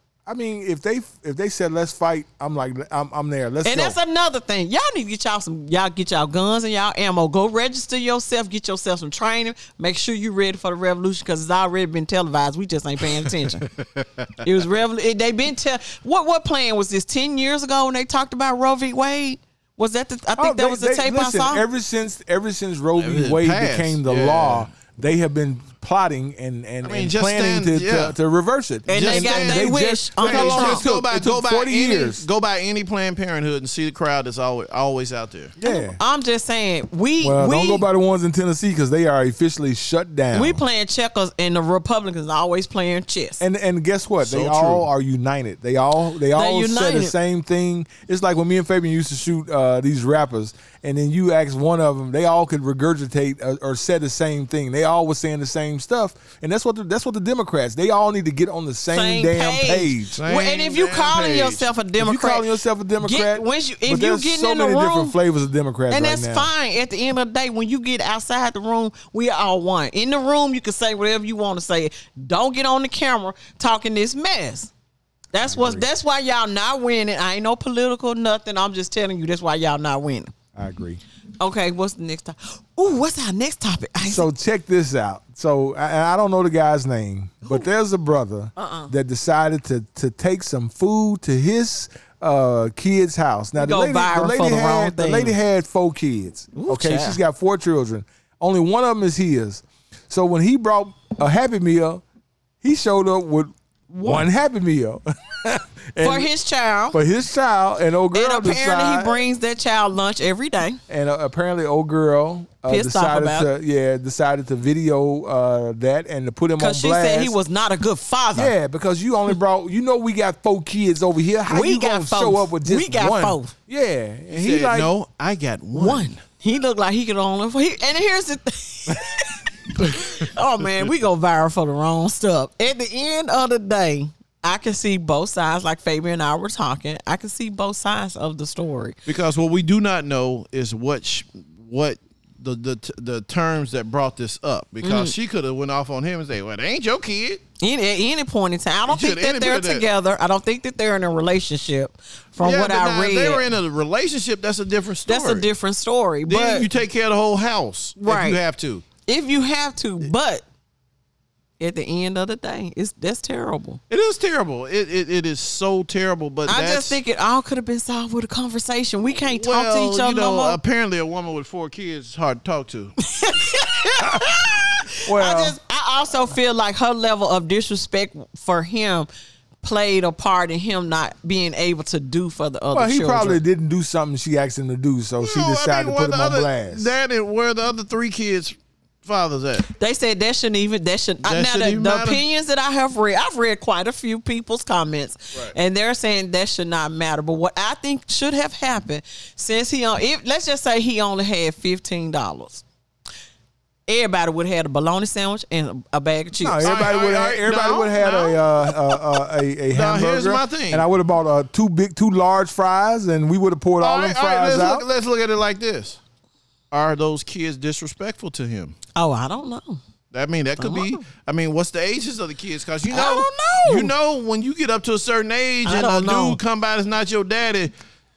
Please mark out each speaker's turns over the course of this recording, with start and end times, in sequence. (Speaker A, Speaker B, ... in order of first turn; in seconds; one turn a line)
Speaker A: 0.2-4.0
Speaker B: 3.6-13.7
Speaker C: 13.8-14.3
Speaker B: 14.4-21.6
Speaker A: 20.4-32.2
Speaker C: 23.0-24.7
Speaker C: 26.8-28.1
Speaker B: 28.9-30.9
Speaker C: 28.9-35.5
Speaker A: 35.6-36.0
Speaker B: 35.6-37.8
Speaker A: 37.2-40.6
Speaker B: 40.3-43.4
Speaker A: 43.4-60.2
Speaker C: 44.2-44.8
Speaker B: 46.4-47.1
Speaker B: 58.9-62.5
Speaker C: 60.2-61.7
Speaker A: 62.0-66.5
Speaker B: 63.0-65.2
Speaker B: 65.9-74.7
Speaker B: 75.3-80.3
Speaker A: 75.4-75.8
Speaker A: 80.5-81.0
Speaker B: 81.4-84.3
Speaker A: 84.0-102.0
Speaker B: 88.5-88.9
Speaker B: 93.6-95.4
Speaker B: 96.5-97.2
Speaker A: 102.6-103.5
Speaker B: 103.9-104.3
Speaker A: 104.0-106.3
Speaker B: 106.0-107.0
Speaker A: 106.9-109.2
Speaker B: 108.1-110.8
Speaker A: 110.9-117.3
Speaker B: 112.7-113.5
Speaker B: 116.6-118.5
Speaker A: 118.3-124.9
Speaker B: 121.5-123.5
Speaker C: 124.3-126.2
Speaker B: 125.7-139.0
Speaker C: 139.1-147.4
Speaker B: 144.8-145.1
Speaker B: 147.6-153.4
Speaker C: 148.9-149.9
Speaker C: 152.4-155.5
Speaker B: 155.1-156.7
Speaker C: 156.3-158.8
Speaker B: 158.0-158.4
Speaker B: 159.1-160.4
Speaker B: 161.6-163.8
Speaker C: 163.9-167.0
Speaker B: 166.5-170.6
Speaker C: 169.3-172.9
Speaker B: 173.1-179.1
Speaker A: 174.0-174.4
Speaker A: 175.0-175.6
Speaker B: 179.6-183.4
Speaker A: 182.7-186.9
Speaker C: 185.2-189.7
Speaker B: 189.7-202.6
Speaker C: 191.2-192.2
Speaker B: 203.9-206.7
Speaker A: 206.4-214.8
Speaker C: 206.6-210.8
Speaker C: 213.8-216.0
Speaker C: 216.7-218.7
Speaker B: 218.9-219.8
Speaker C: 220.1-227.7
Speaker B: 220.6-221.0
Speaker B: 222.9-223.9
Speaker B: 225.6-226.4